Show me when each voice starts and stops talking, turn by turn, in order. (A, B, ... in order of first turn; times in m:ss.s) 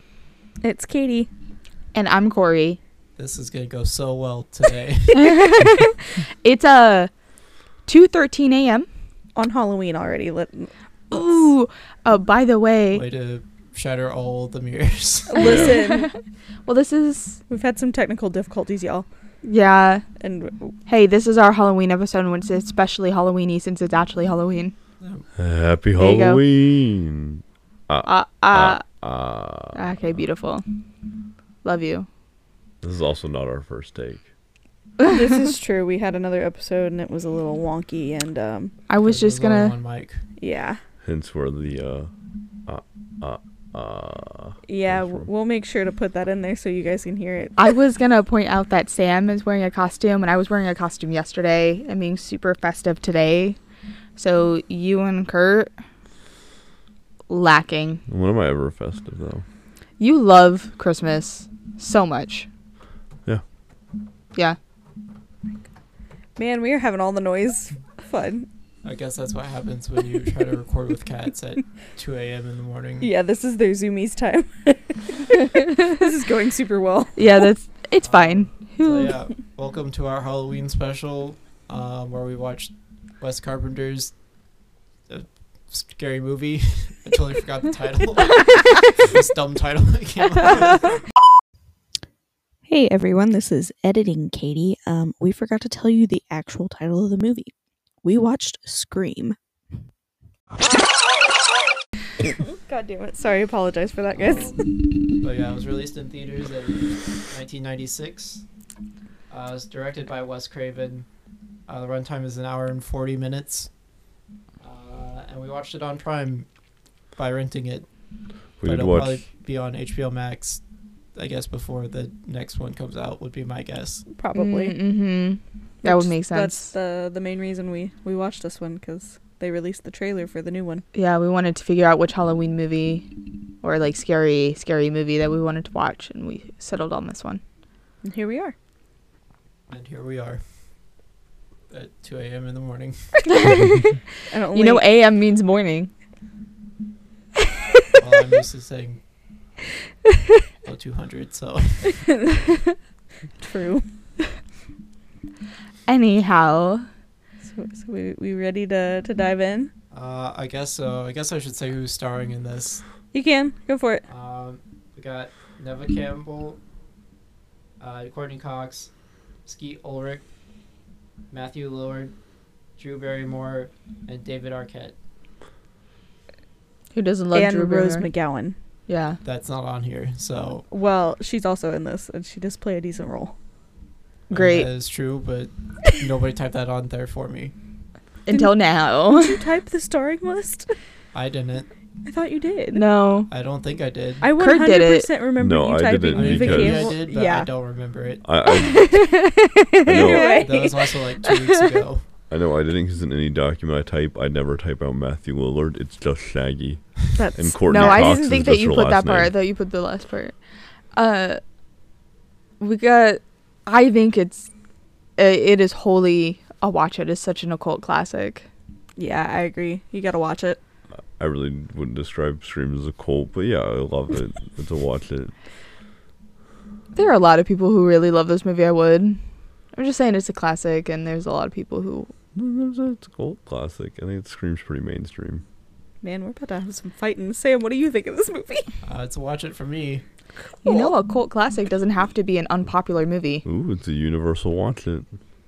0:00.6-0:01.3 A
0:01.9-0:02.8 B
0:03.2-0:05.6 C
0:05.1-0:07.1 B
0:07.8-0:08.9 B
0:09.3-0:11.2 A
0:11.1-0:13.0 B
0:12.9-0:15.5 C
0:15.3-0:16.1 A
0:15.4-0:17.4 B
0:15.4-0:15.8 D
0:17.5-0:19.1 A
0:19.4-0:20.0 B
0:20.2-0:20.7 A
0:20.8-0:24.7 B
0:25.4-0:29.9 D
0:26.0-0:26.4 B
0:28.0-0:28.8 B
0:29.7-0:30.6 B
0:31.6-0:32.1 B
0:32.8-0:34.2 D
0:35.1-0:38.7 A
0:38.9-0:39.7 B
0:39.0-0:40.2 C
0:40.4-0:40.8 A
0:41.0-0:42.1 D
0:42.7-0:45.3 D
0:44.7-0:47.6 A
0:47.6-0:53.6 B
0:54.2-0:55.7 B
0:57.3-0:58.0 B
0:58.1-0:59.4 D
1:00.0-1:02.5 B
1:06.4-1:08.5 A
1:08.8-1:13.1 C
1:13.0-1:17.2 A
1:17.2-1:19.2 B
1:18.0-1:24.2 C
1:25.1-1:31.0 C
1:32.7-1:37.5 E
1:38.0-1:39.3 E
1:42.6-1:44.6 A
1:44.1-1:48.4 C
1:49.3-1:51.1 C
1:51.7-1:53.7 C
1:54.6-1:56.5 C
1:57.1-1:57.9 C
1:58.6-1:59.2 D
1:58.6-2:00.6 C
2:01.1-2:04.0 C
2:04.1-2:04.8 A
2:04.3-2:06.7 B
2:05.8-2:10.8 A
2:10.9-2:13.1 B
2:13.6-2:17.4 B
2:18.0-2:18.5 A
2:19.7-2:20.4 C
2:21.7-2:23.2 C
2:23.3-2:24.0 B
2:24.3-2:24.8 A
2:24.5-2:25.9 B
2:28.0-2:29.0 C
2:30.6-2:32.0 C
2:33.4-2:33.9 A
2:35.8-2:36.9 B
2:37.4-2:39.7 A
2:39.9-2:42.8 C
2:43.1-2:44.0 A
2:44.1-2:46.6 C
2:47.8-2:48.9 C
2:49.4-2:50.2 C
2:51.3-2:52.1 C
2:52.8-2:54.9 C
2:56.9-2:58.1 B
2:57.3-2:58.6 A
2:58.9-2:59.2 B
2:59.2-3:00.6 C
3:00.7-3:03.3 A
3:04.3-3:07.5 C
3:04.3-3:04.7 B
3:08.2-3:09.4 B
3:08.3-3:10.8 A
3:11.1-3:11.7 C
3:12.0-3:12.8 A
3:12.7-3:13.3 B
3:13.3-3:14.2 C
3:14.2-3:17.5 A
3:14.4-3:15.1 B
3:15.4-3:16.9 D
3:16.1-3:18.2 C
3:18.2-3:19.0 D
3:18.7-3:20.5 B
3:19.8-3:20.4 D
3:19.9-3:20.7 A
3:20.4-3:22.0 C
3:22.3-3:29.3 D
3:27.2-3:28.2 A
3:27.6-3:30.4 B
3:30.9-3:31.4 B
3:32.6-3:34.5 B
3:35.2-3:38.5 B
3:39.0-3:40.6 A
3:41.2-3:45.3 D
3:46.9-3:49.2 B
3:49.7-3:52.1 B
3:52.3-3:55.4 D
3:56.0-3:58.7 A
3:58.8-4:00.0 C
4:00.6-4:03.4 B
4:00.6-4:00.9 A
4:03.4-4:05.1 D